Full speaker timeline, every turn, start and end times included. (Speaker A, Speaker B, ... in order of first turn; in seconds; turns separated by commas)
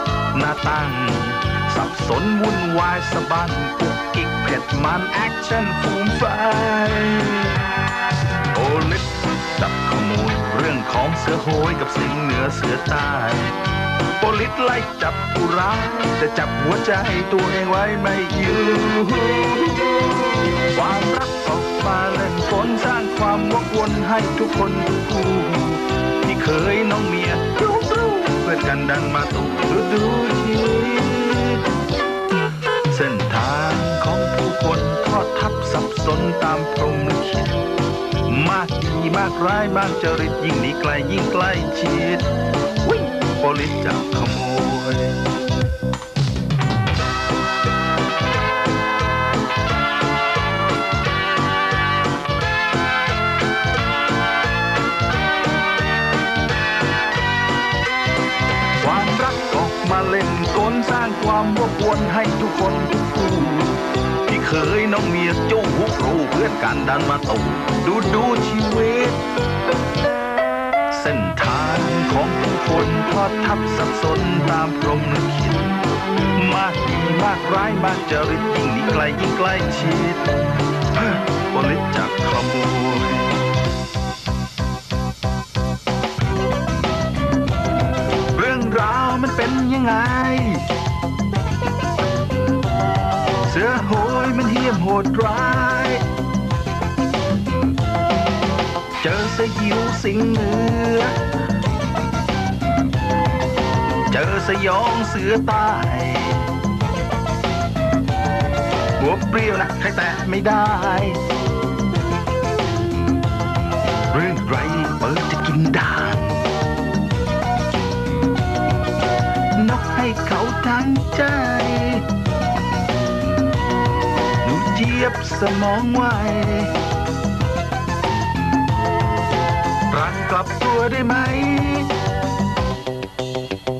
Speaker A: 0.3-7.6, Speaker A: 8.5-13.6, Speaker A: 14.2-31.6, Speaker A: 32.9-37.6, Speaker A: 38.2-42.3, Speaker A: 42.8-45.2, Speaker A: 58.8-69.2, Speaker A: 70.9-80.3, Speaker A: 80.9-83.4, Speaker A: 88.3-90.6, Speaker A: 93.4-96.0, Speaker A: 99.0-101.1, Speaker A: 104.1-106.5, Speaker A: 109.0-111.2, Speaker A: 114.1-116.4, Speaker A: 119.5-122.0, Speaker A: 124.4-126.7, Speaker A: 129.9-131.9